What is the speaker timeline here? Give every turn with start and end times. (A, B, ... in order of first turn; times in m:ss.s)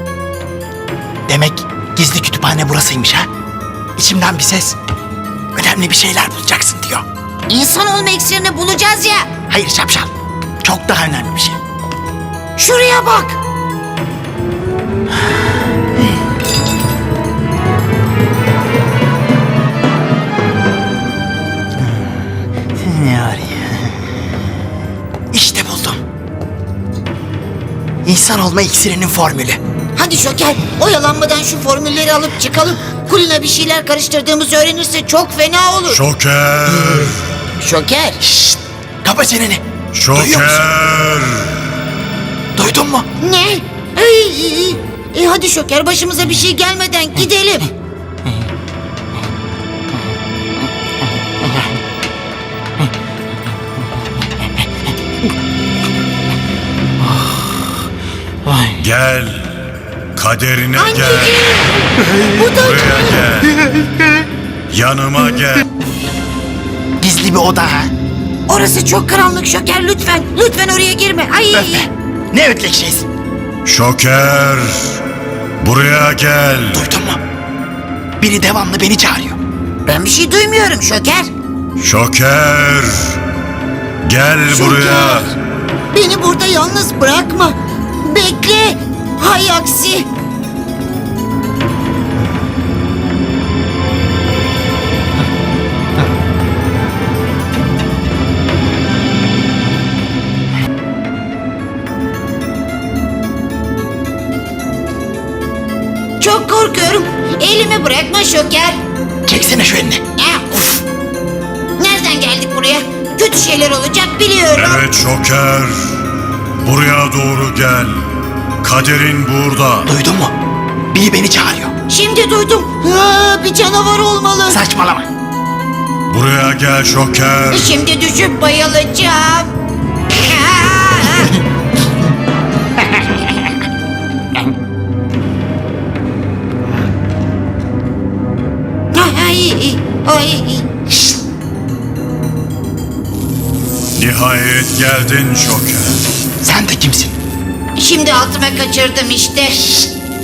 0:01.3-0:03.3 A
0:04.0-0:04.8 A
0:05.5-0:07.0 A
0:07.5-0:09.2 B
0:09.5-0:10.1 A
0:10.6-0:11.6 A
0:12.6-0:13.3 B
0:22.8-0:23.9 A
0:25.3-0:26.0 A
0:28.0-0:29.6 A
0:30.0-0:36.0 B
0:35.9-0:37.2 C
0:37.6-0:38.2 B
0:38.2-0:40.6 A
0:39.9-0:41.5 C
0:42.6-0:43.0 A
0:43.2-0:47.6 B
0:58.8-0:59.5 C
1:00.1-1:01.5 C
1:00.8-1:01.6 B
1:02.4-1:03.1 B
1:02.6-1:03.5 C
1:04.7-1:05.6 C
1:07.0-1:07.9 A
1:08.5-1:11.8 B
1:11.5-1:13.1 A
1:13.6-1:15.0 C
1:15.6-1:16.8 C
1:16.7-1:17.2 A
1:18.2-1:19.4 A
1:19.9-1:21.3 B
1:21.8-1:23.2 C
1:24.0-1:25.3 C
1:24.5-1:25.1 B
1:25.9-1:27.5 B
1:28.1-1:30.0 B
1:46.2-1:48.7 B
1:49.2-1:50.0 A
1:50.2-1:50.7 B
1:51.8-1:54.8 B
1:54.5-1:55.8 C
1:56.6-1:58.0 C
1:58.6-1:59.9 C
1:59.9-2:00.3 A
2:00.9-2:01.7 A
2:01.9-2:04.6 B
2:04.5-2:05.1 A
2:06.1-2:07.8 C
2:07.5-2:09.4 B
2:10.4-2:11.2 B
2:18.9-2:20.6 B
2:24.0-2:26.0 C
2:26.4-2:27.2 A
2:27.8-2:29.6 B